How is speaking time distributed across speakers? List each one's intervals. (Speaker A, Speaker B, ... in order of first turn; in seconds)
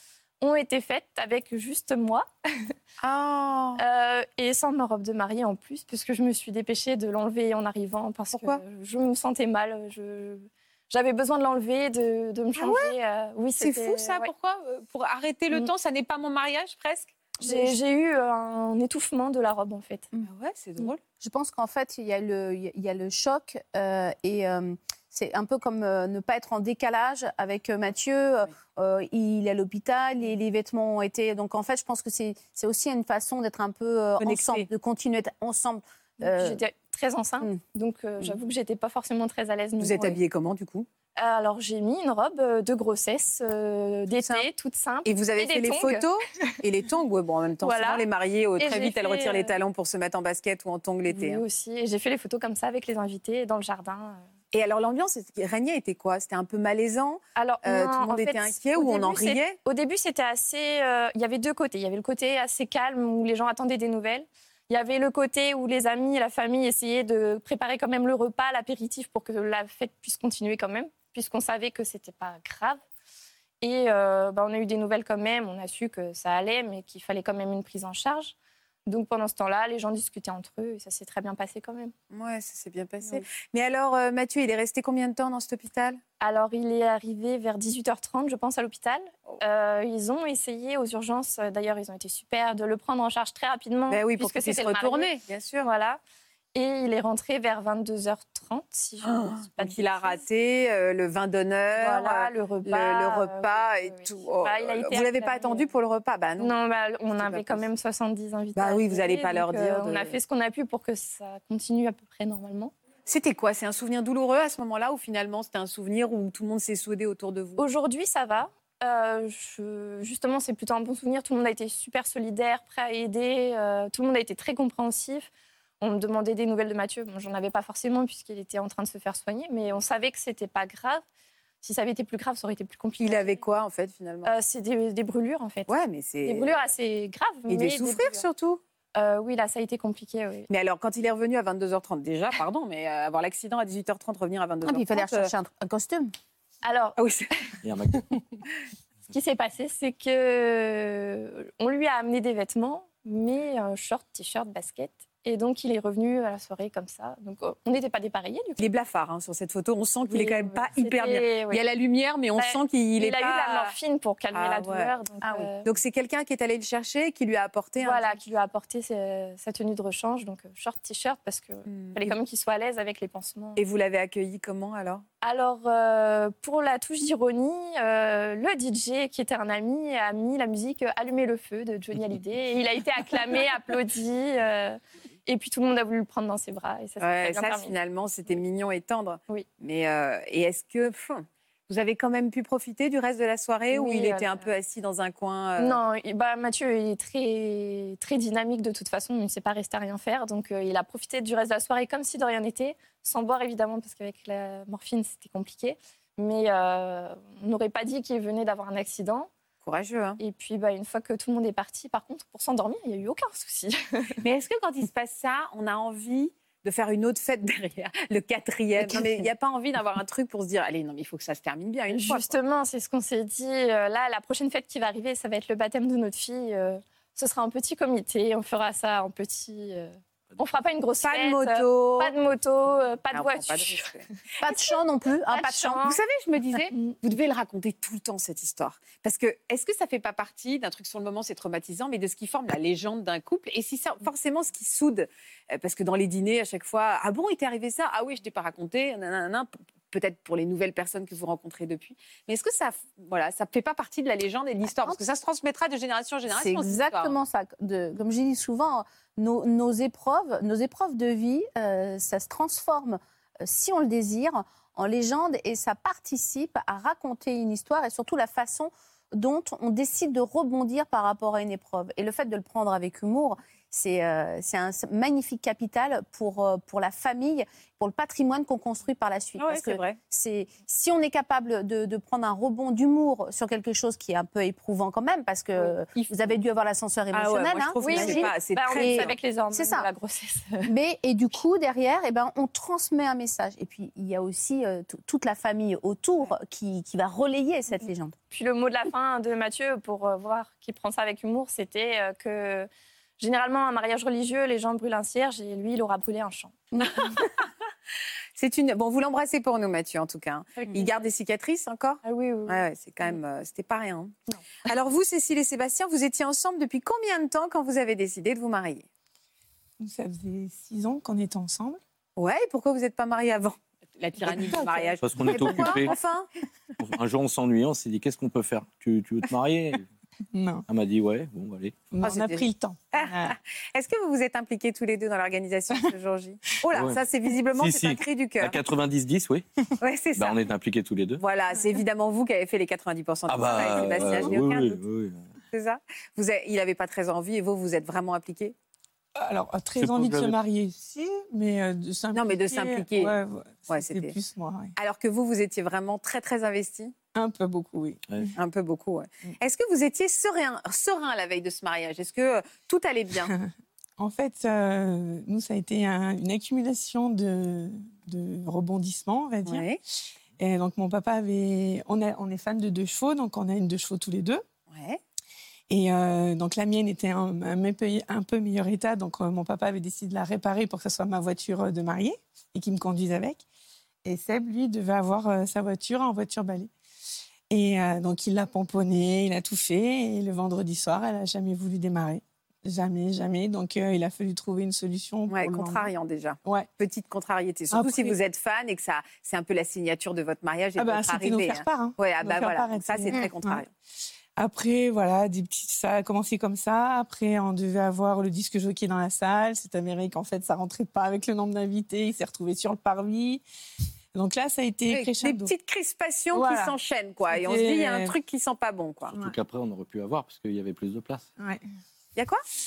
Speaker A: 0.4-2.7, 3.8-14.3, 17.4-20.1, 36.2-40.2, 41.2-46.0, 47.6-48.0, 48.6-49.5, 51.1-54.2, 57.4-72.8, 73.6-78.3, 78.8-81.9, 86.2-95.1, 95.6-96.0, 96.5-100.2, 101.8-105.7, 106.4-112.7, 117.6-125.3, 125.8-131.0, 131.6-133.4, 134.2-135.7, 136.2-138.2, 138.9-140.5, 146.6-147.0, 149.1-158.7, 160.1-161.6, 162.4-165.7, 167.8-173.6, 175.2-187.7, 193.7-194.5, 195.6-209.3, 210.2-214.2, 221.9-233.9, 235.3-236.0, 287.8-290.7, 298.3-306.9, 310.6-310.9, 312.0-312.6
Speaker B: 3.0-3.8, 8.3-8.6, 12.6-12.9, 13.6-17.1, 20.2-21.0, 34.2-34.7, 39.8-40.9, 45.0-51.4, 54.5-59.6, 82.1-86.0, 93.9-95.7, 99.0-106.6, 107.1-107.6, 108.5-110.2, 113.0-117.6, 133.0-134.3, 135.7-136.5, 137.5-138.6, 140.5-145.3, 147.0-147.3, 158.6-163.7, 164.3-164.9, 165.6-168.2, 171.7-172.1, 173.6-175.0, 187.0-195.8, 209.6-210.2, 214.2-222.3, 231.0-232.1, 233.1-234.0, 235.6-257.1, 279.4-280.0, 285.6-286.4, 287.1-289.1, 308.4-314.1, 314.6-318.8, 322.2-326.3, 332.0-338.6, 339.8-340.4, 341.2-344.8, 345.5-348.5, 352.1-353.1, 353.7-354.1, 354.8-356.9, 358.4-363.3, 369.4-369.8, 374.7-375.0, 395.3-403.7, 414.9-419.1, 422.1-422.4
Speaker C: 21.2-36.6, 144.6-146.1, 234.4-235.8, 256.3-289.9, 290.7-298.1, 306.7-307.2
Speaker D: 147.6-148.1, 325.0-325.9, 326.8-329.8, 330.7-331.9, 336.7-337.0, 337.6-339.4, 340.1-341.2, 343.3-345.3, 349.8-350.3, 419.1-421.3
Speaker E: 319.8-321.8, 324.2-325.8, 330.3-330.6, 331.9-333.4, 349.1-354.7, 357.1-358.3, 363.2-369.6, 370.4-374.4, 375.7-383.4, 384.0-386.7, 387.5-395.9, 397.7-398.1, 400.8-403.6, 404.4-413.4, 414.1-415.5, 416.3-416.7, 417.3-418.1